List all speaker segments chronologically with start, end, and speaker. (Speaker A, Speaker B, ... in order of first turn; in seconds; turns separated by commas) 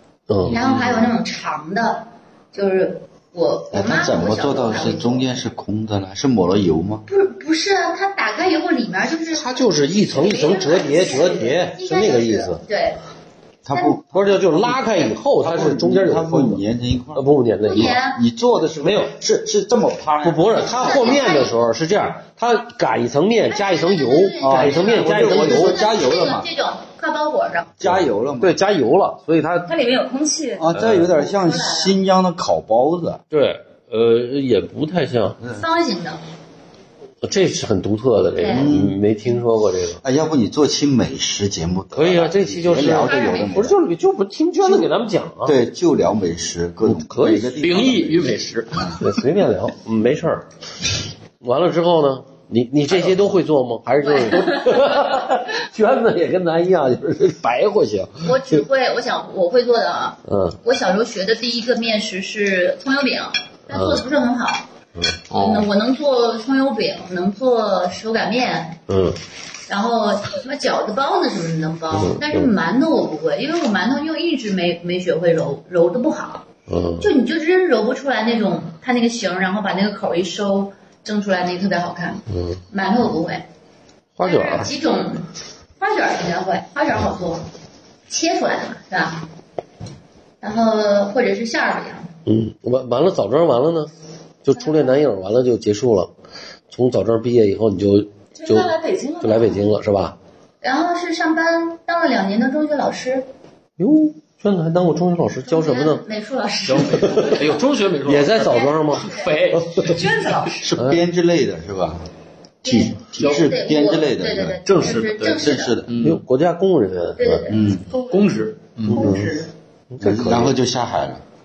Speaker A: 0.3-0.6, Speaker B: 0.4-1.1, Speaker C: 0.5-5.3, Speaker D: 3.7-7.0, Speaker C: 7.1-13.0, Speaker A: 9.3-12.6, Speaker D: 13.6-14.8, Speaker A: 14.1-16.6, Speaker D: 15.4-17.2, Speaker A: 17.1-18.0, Speaker C: 17.6-18.2, Speaker D: 17.8-21.2, Speaker A: 18.8-19.1, Speaker A: 20.2-25.8, Speaker C: 20.6-21.6, Speaker C: 23.5-27.7, Speaker D: 24.4-26.5, Speaker D: 27.8-28.6, Speaker A: 27.8-29.7, Speaker E: 29.7-31.9, Speaker D: 30.6-33.2, Speaker A: 30.7-31.1, Speaker A: 33.3-35.4, Speaker C: 35.5-36.2, Speaker A: 37.2-40.0, Speaker C: 38.4-38.7, Speaker D: 38.5-39.0, Speaker D: 40.0-43.8, Speaker A: 41.9-45.5, Speaker C: 42.9-43.6, Speaker D: 44.6-44.9, Speaker D: 45.4-49.0, Speaker A: 46.8-47.6, Speaker B: 47.6-49.0, Speaker A: 49.0-50.4, Speaker A: 51.4-58.6, Speaker C: 54.0-54.9, Speaker C: 58.2-64.6, Speaker A: 60.3-60.6, Speaker A: 63.7-64.0, Speaker B: 65.3-65.7, Speaker C: 65.3-68.8, Speaker A: 68.9-69.2, Speaker C: 69.7-76.5, Speaker A: 71.9-72.5, Speaker A: 76.7-77.1, Speaker C: 77.0-83.4, Speaker A: 82.3-82.6, Speaker A: 84.2-84.7, Speaker C: 84.2-85.3, Speaker C: 85.8-87.5, Speaker C: 88.1-89.3, Speaker C: 90.4-92.1, Speaker A: 92.2-93.9, Speaker A: 94.4-96.1, Speaker A: 96.7-100.2, Speaker E: 98.3-99.7, Speaker C: 100.6-103.2, Speaker A: 103.8-106.0, Speaker C: 105.5-107.5, Speaker B: 106.7-110.0, Speaker A: 107.0-107.3, Speaker A: 108.0-110.0, Speaker C: 108.5-109.3, Speaker E: 109.8-110.6, Speaker D: 110.6-112.0, Speaker D: 112.6-114.6, Speaker C: 112.6-115.8, Speaker B: 114.7-116.2, Speaker D: 115.2-115.9, Speaker A: 116.0-117.5, Speaker C: 117.2-117.6, Speaker D: 117.5-117.9, Speaker E: 117.9-118.3, Speaker B: 118.1-119.1, Speaker A: 118.9-119.3, Speaker E: 118.9-119.5, Speaker A: 119.9-120.5, Speaker D: 120.0-121.2